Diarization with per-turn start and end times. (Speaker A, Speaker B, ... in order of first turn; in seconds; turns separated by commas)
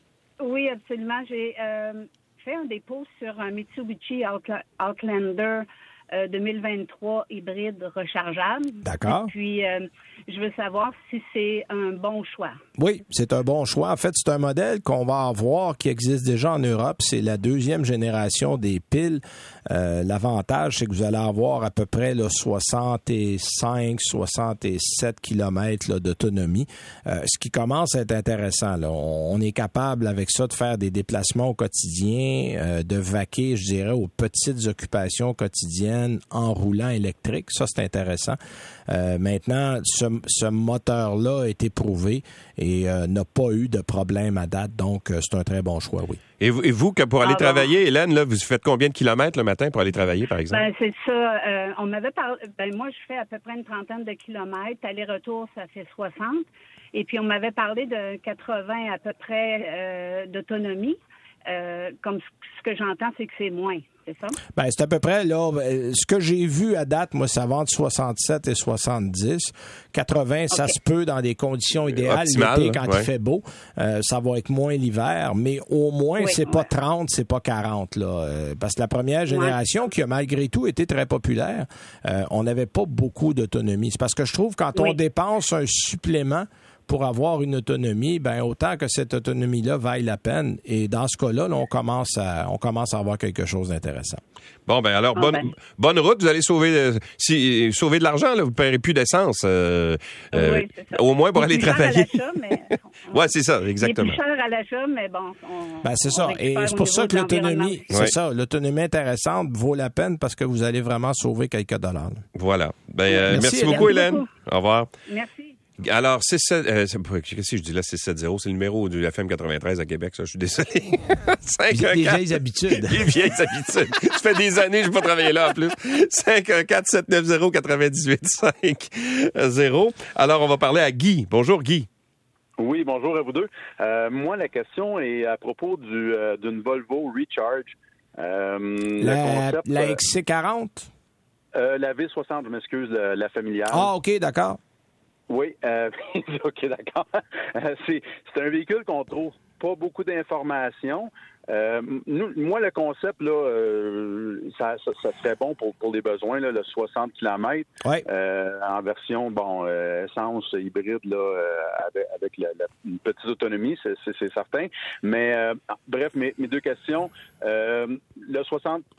Speaker A: 0.4-12.6, Speaker B: 8.8-9.3, Speaker B: 12.8-46.2, Speaker C: 46.4-50.6, Speaker A: 47.2-47.7, Speaker A: 50.5-64.4, Speaker B: 64.5-94.2, Speaker C: 71.9-73.1, Speaker A: 76.2-76.6, Speaker A: 79.3-79.5, Speaker C: 94.7-102.2, Speaker A: 95.1-95.5, Speaker A: 100.3-107.9, Speaker C: 103.1-104.2, Speaker B: 105.8-112.2, Speaker C: 112.3-114.9, Speaker A: 113.1-114.3, Speaker B: 113.3-113.9, Speaker A: 115.1-115.5, Speaker C: 115.8-131.9, Speaker B: 121.7-123.3, Speaker D: 132.6-140.0, Speaker B: 139.0-140.9, Speaker D: 141.5-143.9, Speaker B: 143.7-144.6, Speaker D: 145.3-168.8